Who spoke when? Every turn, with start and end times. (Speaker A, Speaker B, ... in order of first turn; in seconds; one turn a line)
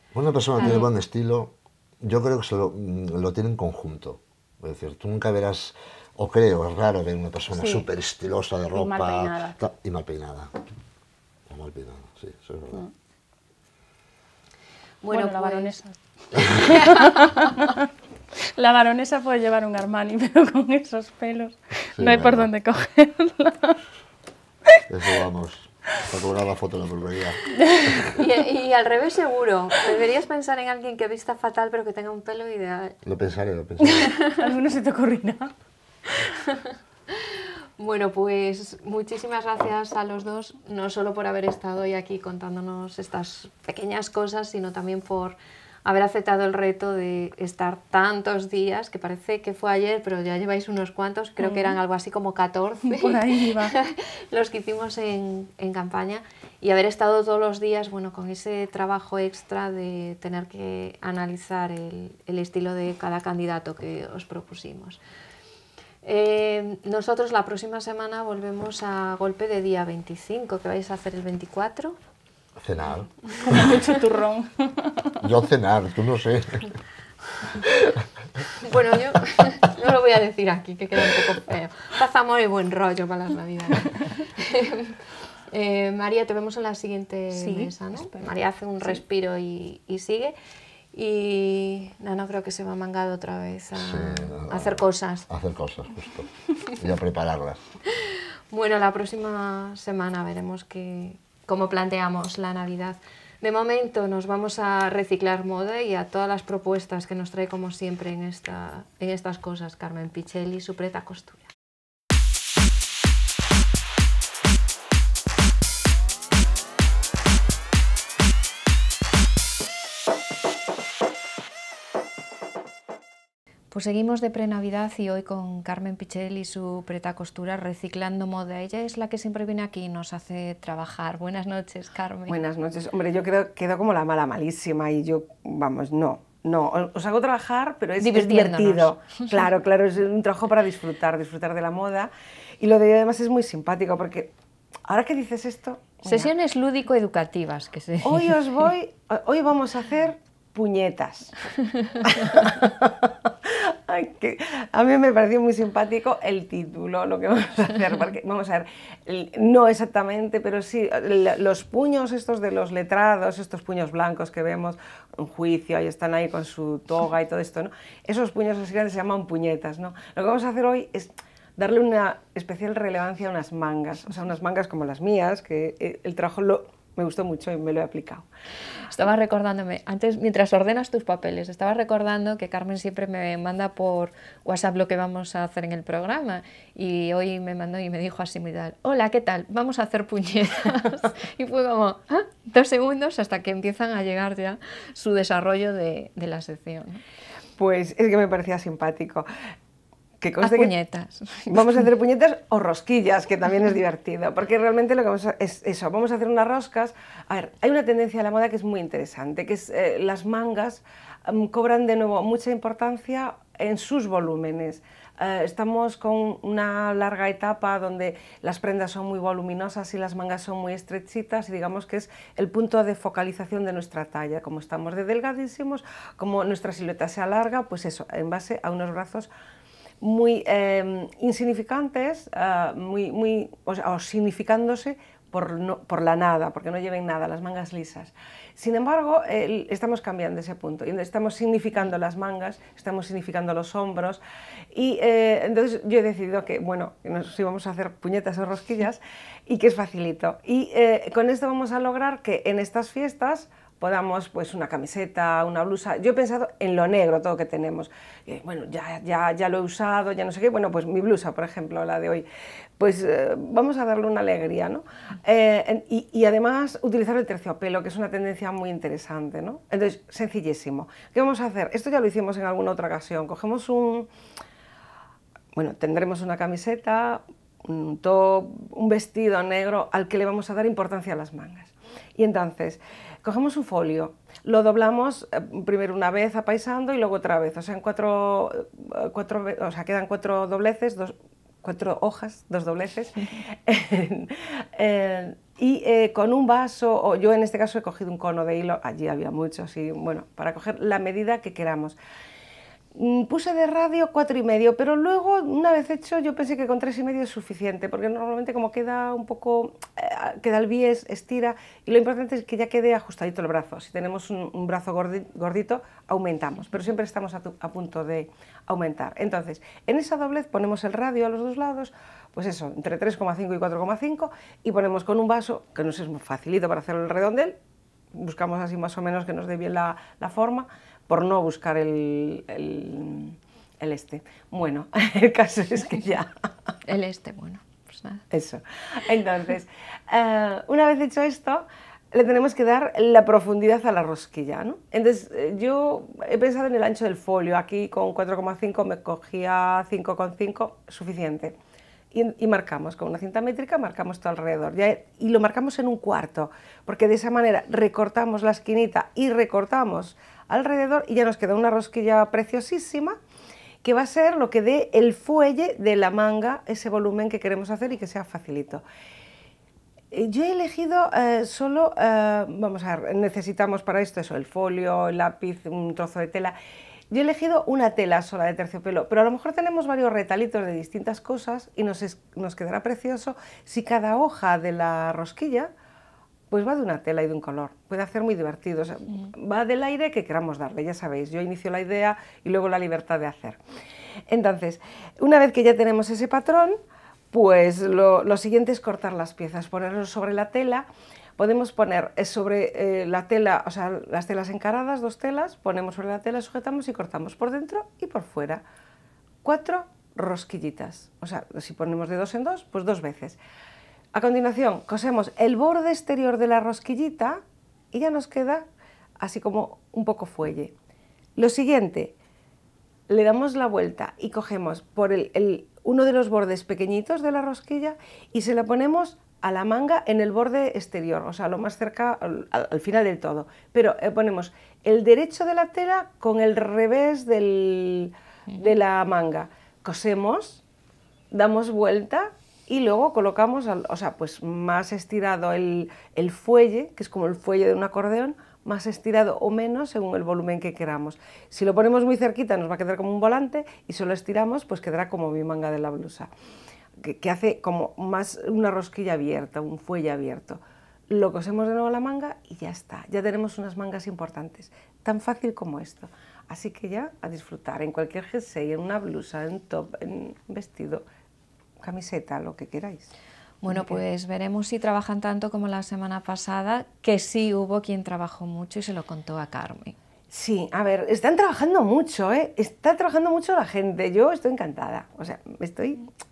Speaker A: 0.1-10.5
Speaker B: 0.6-0.8
Speaker C: 7.5-7.8
Speaker C: 8.7-9.6
Speaker A: 11.5-12.8
Speaker B: 15.0-15.8
Speaker C: 15.1-17.8
Speaker B: 16.6-17.7
Speaker C: 18.4-23.8
Speaker A: 21.9-22.5
Speaker A: 24.9-28.1
Speaker C: 27.6-28.0
Speaker B: 28.1-33.0
Speaker A: 33.0-34.1
Speaker C: 33.8-35.5
Speaker B: 34.0-34.4
Speaker B: 36.5-65.0
Speaker C: 51.4-51.8
Speaker C: 52.8-53.8
Speaker B: 66.0-72.0
Speaker A: 72.6-73.7
Speaker C: 73.4-75.2
Speaker A: 75.2-76.7
Speaker A: 77.6-78.0
Speaker B: 78.6-85.0
Speaker B: 85.5-90.3
Speaker C: 87.3-88.3
Speaker B: 90.9-95.3
Speaker A: 93.8-97.6
Speaker B: 98.0-111.5
Speaker B: 123.7-132.4
Speaker D: 132.3-144.3
Speaker B: 138.0-139.5
Speaker D: 144.9-146.3
Speaker B: 146.1-148.4
Speaker D: 148.0-151.3
Speaker D: 152.0-178.3
Speaker B: 178.9-197.0
Speaker D: 197.6-199.3
Speaker D: 200.2-200.7
Speaker B: 200.4-201.8
Speaker D: 201.5-229.3
Speaker D: 230.0-244.2
Speaker D: 244.7-262.3
Speaker D: 262.8-274.1
Speaker D: 275.6-302.0
Speaker D: 302.9-327.6
Speaker D: 328.1-336.3
Speaker B: 336.9-338.3
Speaker D: 338.3-351.6
Speaker D: 352.1-363.2
Speaker D: 363.8-368.8
Speaker D: 370.1-376.6
Speaker D: 377.1-385.7
Speaker D: 386.5-393.6
Speaker D: 394.3-396.8
Speaker D: 397.3-408.6
Speaker D: 409.4-413.4
Speaker D: 414.1-417.4
Speaker D: 417.9-418.6
Speaker D: 419.2-420.7
Speaker D: 421.4-422.1
Speaker D: 423.1-440.6
Speaker D: 441.3-456.3
Speaker D: 457.0-471.0
Speaker D: 471.8-473.1
Speaker B: 473.6-480.0
Speaker D: 473.7-474.0
Speaker D: 480.3-486.1